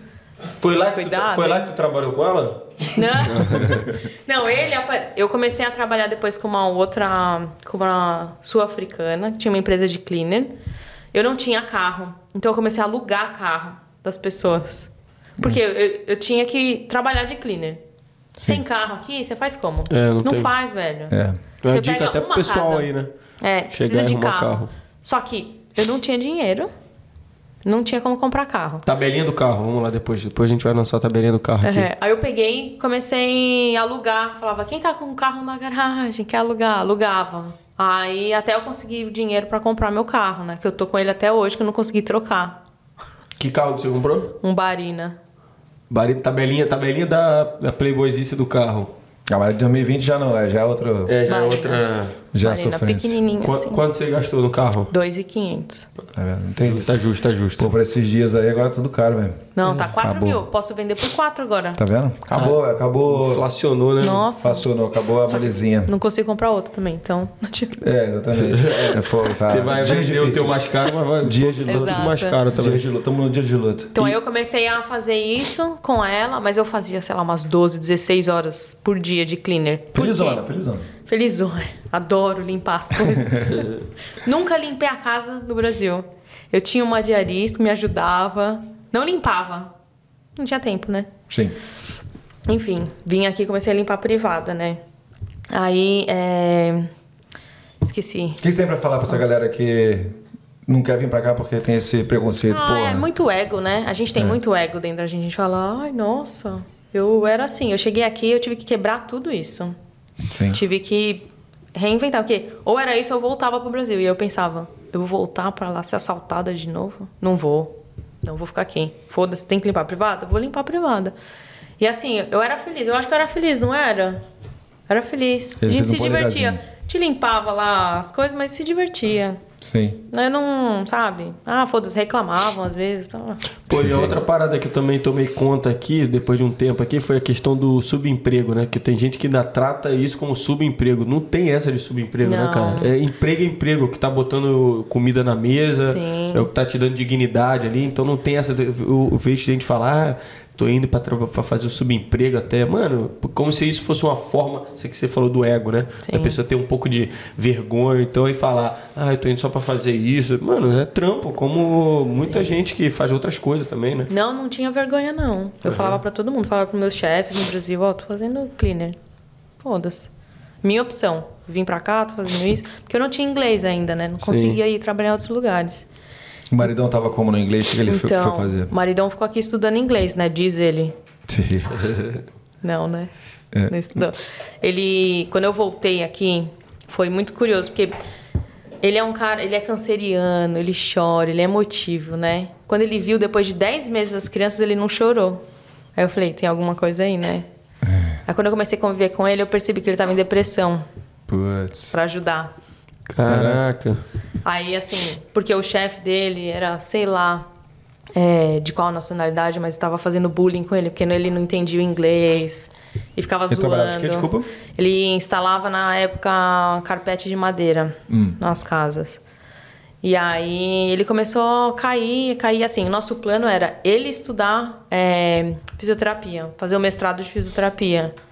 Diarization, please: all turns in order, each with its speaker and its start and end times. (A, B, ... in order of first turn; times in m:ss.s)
0:00.6-0:03.8 A
0:00.9-0:01.7 B
0:02.9-0:10.5 B
0:11.1-0:17.8 B
0:18.4-0:18.6 C
0:18.4-0:22.9 B
0:19.9-0:20.5 A
0:21.1-0:21.4 C
0:21.6-0:23.1 A
0:23.4-0:26.7 B
0:23.7-0:24.7 A
0:27.6-0:28.8 B
0:28.8-0:31.9 A
0:31.6-0:42.6 B
0:43.4-0:44.3 A
0:44.4-0:45.2 B
0:45.9-0:48.9 A
0:49.3-0:51.2 C
0:51.1-0:52.2 A
0:51.3-0:51.8 B
0:52.3-0:53.2 C
0:52.4-0:53.8 B
0:53.4-0:54.9 A
0:54.9-0:55.9 B
0:56.1-0:56.9 C
0:56.6-0:57.7 A
0:57.6-1:00.4 C
0:59.6-1:01.8 B
1:01.8-1:03.4 C
1:02.3-1:04.3 A
1:04.0-1:04.6 B
1:04.4-1:05.9 C
1:05.3-1:07.7 B
1:07.8-1:10.6 C
1:08.3-1:12.8 A
1:11.2-1:14.1 C
1:11.6-1:12.4 B
1:13.9-1:20.4 B
1:19.9-1:20.9 C
1:21.0-1:23.7 B
1:24.2-1:29.7 B
1:30.4-1:31.1 B
1:31.3-1:31.6 C
1:32.5-1:34.8 B
1:35.5-1:36.9 B
1:37.8-1:38.4 B
1:38.4-1:43.1 C
1:42.5-1:49.8 B
1:50.3-1:50.6 C
1:50.5-2:01.1 B
2:01.8-2:04.2 B
2:04.9-2:09.4 B
2:05.6-2:06.6 C
2:09.6-2:10.0 C
2:10.1-2:13.4 B
2:13.7-2:44.1 A
2:13.7-2:14.2 C
2:22.2-2:22.9 B
2:25.8-2:26.5 B
2:36.0-2:36.4 B
2:44.1-2:49.0 B
2:45.6-2:46.0 A
2:49.6-2:50.1 B
2:50.6-2:55.9 B
2:54.2-2:54.6 A
2:56.5-2:58.7 C
2:57.8-3:00.9 B
3:01.3-3:01.8 C
3:01.8-3:02.1 A
3:02.6-3:03.1 B
3:03.5-3:04.0 C
3:03.7-3:08.0 B
3:08.8-3:15.4 B
3:16.0-3:17.4 B
3:17.9-3:18.2 C
3:18.2-3:20.8 B
3:21.3-3:21.9 C
3:21.9-3:22.5 B
3:23.1-3:24.0 A
3:23.2-3:23.6 C
3:24.4-3:27.5 B
3:28.2-3:39.2 B
3:33.5-3:34.5 C
3:38.1-3:38.4 C
3:40.0-3:48.1 B